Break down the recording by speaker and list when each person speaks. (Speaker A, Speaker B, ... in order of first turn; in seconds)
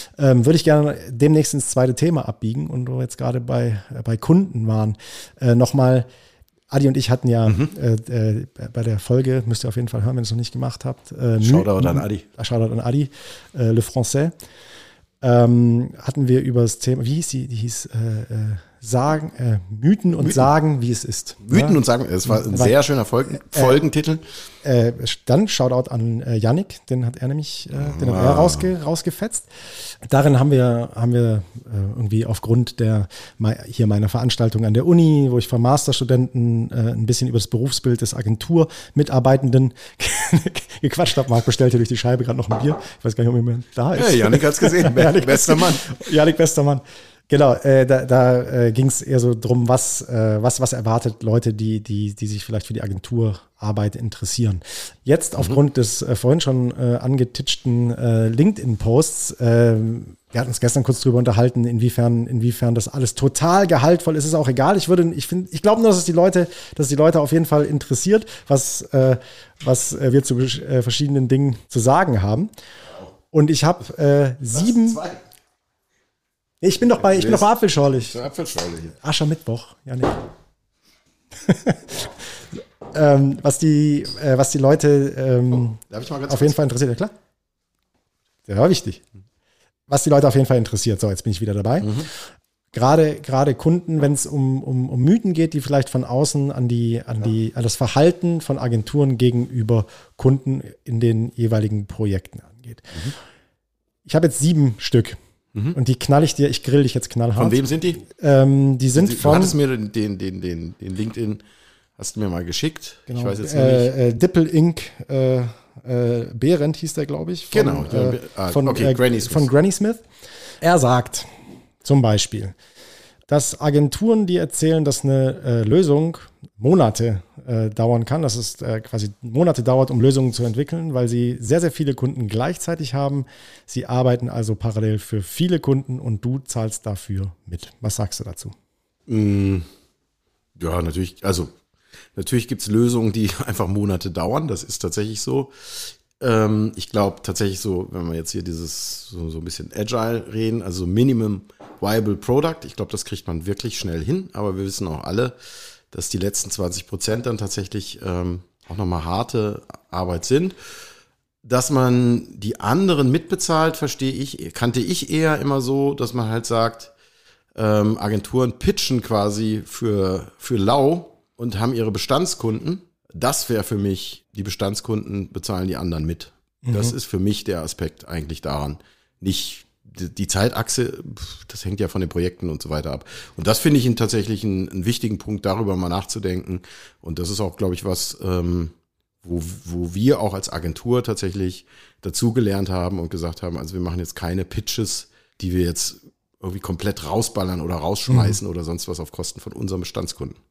Speaker A: 0.2-6.1, 6.7-14.3, 15.2-22.8, 23.3-23.8, 24.6-72.5, 73.3-75.0, 76.6-78.2, 79.0-80.2, 81.4-87.1, 88.5-89.0, 89.9-92.1, 92.7-103.1, 104.1-105.2, 105.7-109.5, 113.1-120.0, 120.6-121.3, 121.8-122.5, 123.3-138.5, 176.7-176.9, 198.1-198.4
Speaker B: 11.4-12.2, 21.4-24.2, 27.8-28.7, 44.0-45.9, 74.6-75.2, 76.8-79.0, 85.8-86.6, 91.8-92.1, 107.4-108.0, 109.0-111.4, 112.0-114.0, 117.5-119.5, 139.1-139.7, 140.6-141.5, 142.2-155.3, 155.9-160.6, 161.4-166.9, 167.6-200.4